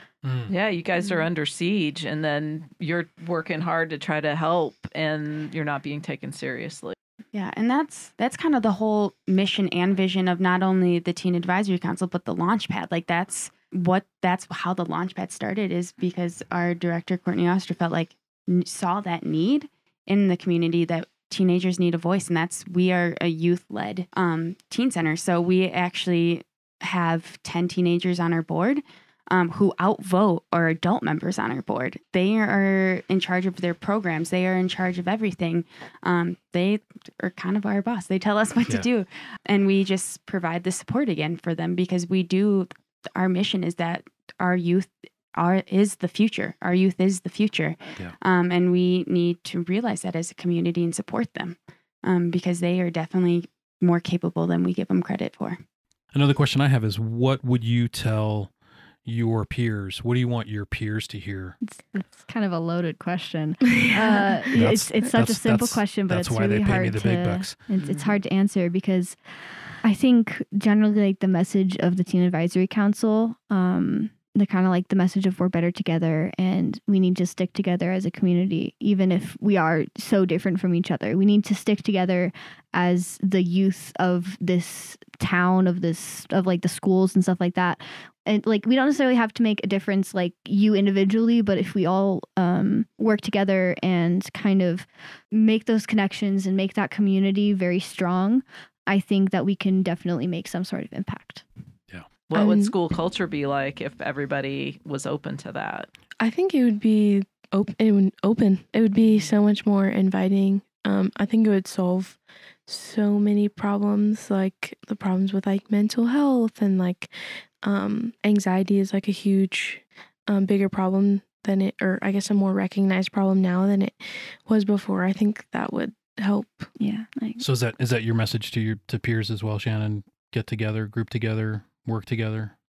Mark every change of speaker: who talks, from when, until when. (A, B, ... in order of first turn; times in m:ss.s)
0:00.2-0:00.5 A
0:00.5-0:06.9 B
0:07.3-0:55.6 C
0:56.1-0:58.5 A
0:59.0-1:01.6 A
1:01.6-1:09.2 D
1:03.6-1:05.1 E
1:04.5-1:07.6 A
1:07.8-1:08.1 B
1:09.8-1:41.4 D
1:42.3-1:45.9 B
1:42.3-1:42.7 E
1:46.2-2:06.7 E
2:06.8-2:07.4 D
2:07.4-2:12.5 A